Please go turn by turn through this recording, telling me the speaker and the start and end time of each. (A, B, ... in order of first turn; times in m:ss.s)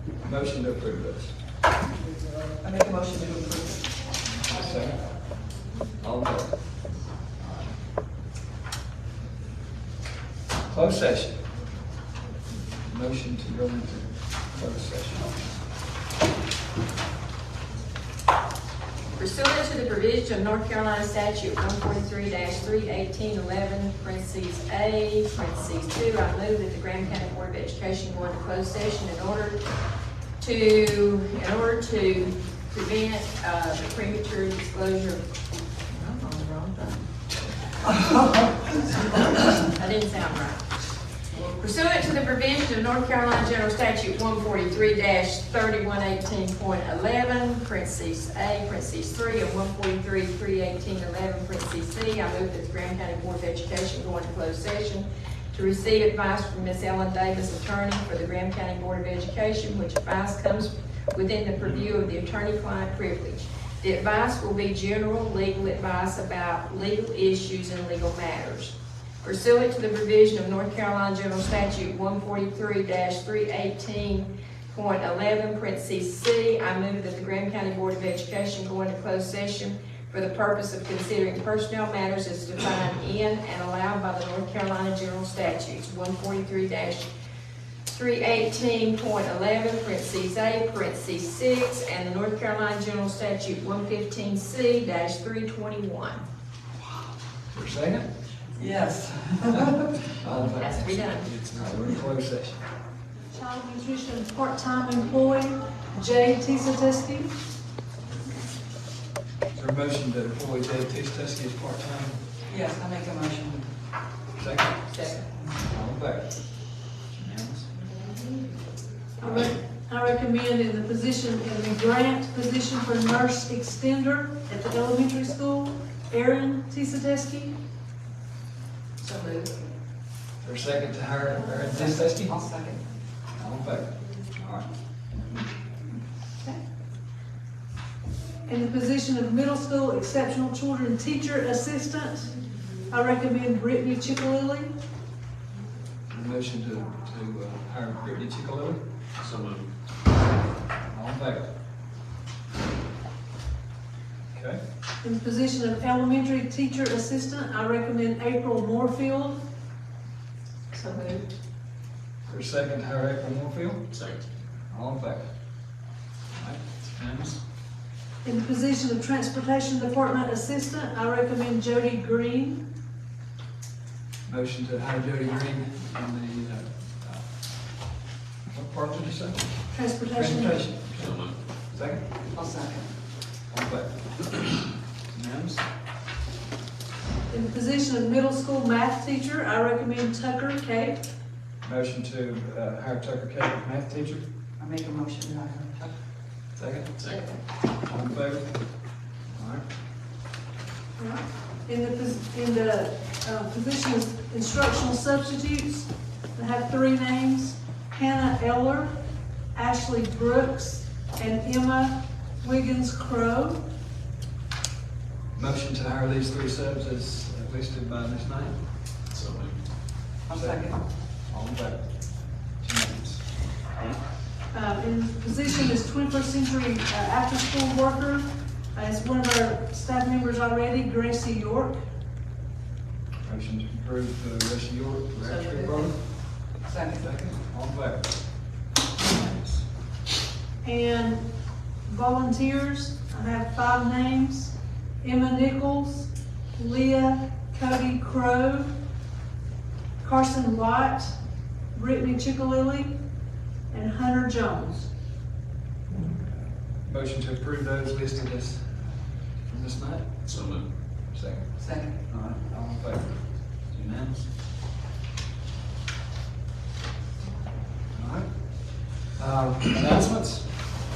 0:00.2-0:01.4 A
0:02.6-0:03.9 B
0:04.4-0:05.3 A
0:06.0-0:07.7 A
0:10.6-0:11.4 A
0:12.8-0:15.4 A
0:19.2-0:29.6 C
0:30.4-0:35.2 C
0:35.9-0:36.7 B
0:36.0-0:36.9 C
0:39.4-0:40.8 C
0:41.3-1:27.1 C
1:27.9-1:36.2 C
1:37.5-1:38.1 A
1:38.4-1:40.0 B
1:40.2-1:42.6 A
1:40.4-1:41.3 C
1:43.3-1:47.3 D
1:49.5-1:52.2 A
1:52.5-1:53.7 B
1:54.3-1:57.7 A
1:54.9-1:55.3 C
1:59.2-2:07.6 D
2:09.0-2:09.6 C
2:10.4-2:12.4 A
2:11.7-2:12.8 B
2:13.3-2:14.7 A
2:18.4-2:22.4 D
2:22.9-2:24.7 D
2:26.1-2:28.8 A
2:29.2-2:29.7 E
2:30.9-2:31.4 A
2:34.3-2:34.6 A
2:35.0-2:39.4 D
2:40.7-2:41.3 C
2:42.3-2:43.9 A
2:43.9-2:44.2 E
2:44.7-2:45.3 A
2:46.3-2:47.4 A
2:48.2-2:52.6 D
2:54.2-2:57.2 A
2:58.5-3:02.0 A
2:59.7-3:00.7 D
3:00.9-3:01.4 E
3:02.3-3:02.9 B
3:03.5-3:05.6 A
3:07.3-3:11.0 D
3:11.6-3:14.2 A
3:14.6-3:16.0 B
3:16.5-3:19.6 A
3:17.0-3:17.2 E
3:17.0-3:17.4 C
3:21.0-3:28.9 D
3:29.5-3:33.6 D
3:35.3-3:38.6 A
3:39.1-3:39.6 E
3:40.2-3:40.8 B
3:40.3-3:43.6 A
3:44.5-3:51.8 D
3:53.2-3:56.4 A
3:55.2-3:55.9 C
3:56.6-3:57.1 B
3:57.0-3:58.4 A
3:59.0-3:59.6 A
4:00.6-4:01.2 D
4:01.8-4:08.7 D
4:10.0-4:11.2 D
4:11.7-4:13.0 D
4:13.7-4:14.9 D
4:16.3-4:20.2 A
4:20.2-4:20.7 E
4:21.0-4:24.2 A
4:21.6-4:22.0 B
4:27.9-4:30.6 A